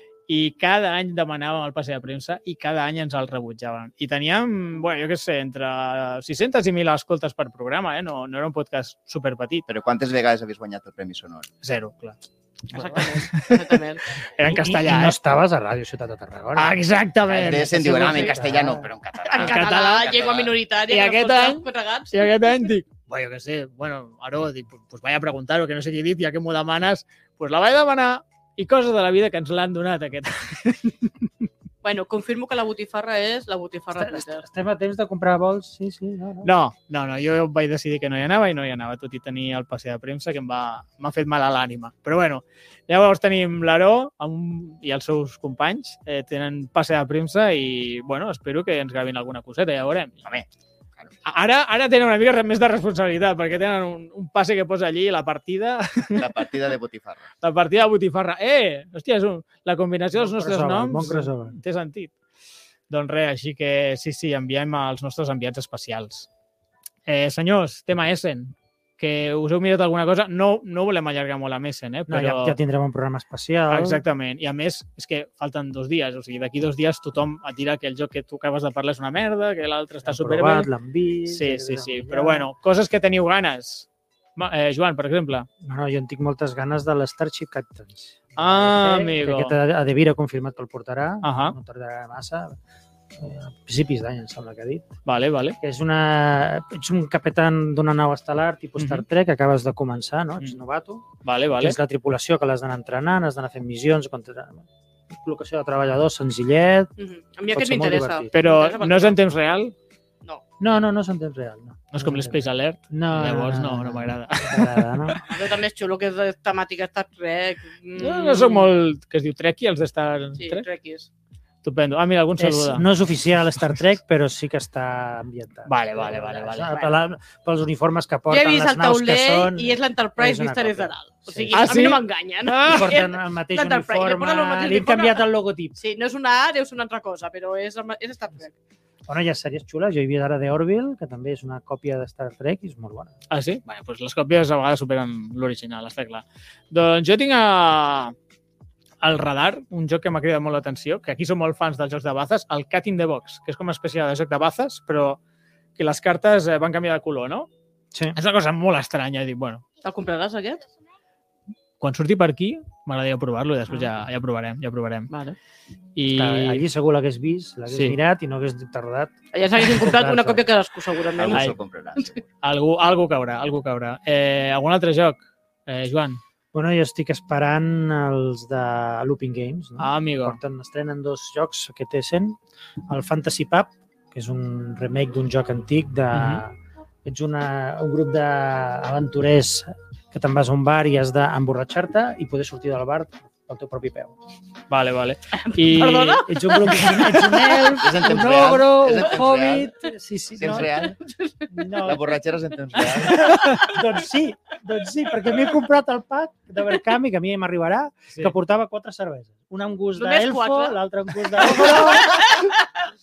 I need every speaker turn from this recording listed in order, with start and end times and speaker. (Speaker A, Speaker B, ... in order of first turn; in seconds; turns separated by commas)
Speaker A: 0.3-9.7, Speaker B: 9.7-11.5, Speaker A: 11.6-12.2, Speaker C: 12.7-14.0, Speaker A: 12.7-13.8, Speaker A: 14.4-15.2, Speaker D: 14.4-16.8, Speaker A: 16.6-18.4, Speaker B: 17.3-20.6, Speaker D: 17.5-18.9, Speaker C: 18.0-18.4, Speaker C: 19.2-22.2, Speaker A: 19.4-20.1, Speaker A: 20.9-31.3, Speaker C: 31.8-34.5, Speaker D: 34.0-36.5, Speaker A: 36.4-50.2, Speaker A: 51.2-56.3, Speaker B: 56.2-57.3, Speaker A: 57.4-62.1, Speaker D: 60.2-61.6, Speaker A: 62.9-66.3, Speaker A: 67.1-72.6, Speaker D: 72.1-74.0, Speaker A: 73.7-80.7, Speaker D: 80.0-82.5, Speaker A: 81.3-85.5, Speaker D: 85.6-92.6, Speaker A: 88.4-89.5, Speaker A: 91.2-91.6, Speaker D: 93.2-94.9, Speaker A: 95.1-95.6, Speaker D: 95.6-101.1, Speaker A: 98.8-99.0, Speaker A: 101.2-101.8, Speaker D: 101.6-106.9, Speaker C: 107.0-109.2, Speaker D: 107.5-108.3, Speaker A: 108.3-109.7, Speaker D: 110.6-115.2, Speaker A: 111.9-115.2, Speaker C: 115.3-118.7, Speaker A: 118.0-120.7, Speaker C: 120.4-121.1, Speaker A: 121.6-122.9, Speaker D: 122.4-131.9, Speaker A: 125.7-126.9, Speaker C: 128.3-135.2, Speaker A: 131.6-132.9, Speaker D: 132.6-135.8, Speaker C: 135.8-138.6, Speaker D: 139.1-143.1, Speaker A: 143.3-148.2, Speaker A: 149.0-155.2, Speaker A: 155.8-157.5, Speaker A: 158.2-159.6, Speaker C: 159.8-160.6, Speaker A: 161.8-165.1, Speaker C: 165.1-165.4, Speaker A: 166.0-166.6, Speaker D: 166.1-170.5, Speaker A: 167.7-168.0, Speaker C: 169.3-171.6, Speaker B: 171.2-172.3, Speaker A: 172.4-176.2, Speaker D: 176.5-182.4, Speaker A: 179.8-180.4, Speaker D: 182.9-194.2, Speaker A: 186.1-186.4, Speaker A: 194.7-197.3, Speaker C: 195.4-196.9, Speaker D: 196.3-201.0, Speaker B: 197.8-199.7, Speaker B: 200.4-201.0, Speaker C: 201.0-201.5, Speaker D: 201.5-202.2, Speaker B: 201.8-203.4, Speaker D: 202.8-212.2, Speaker C: 210.0-210.8, Speaker C: 211.4-212.7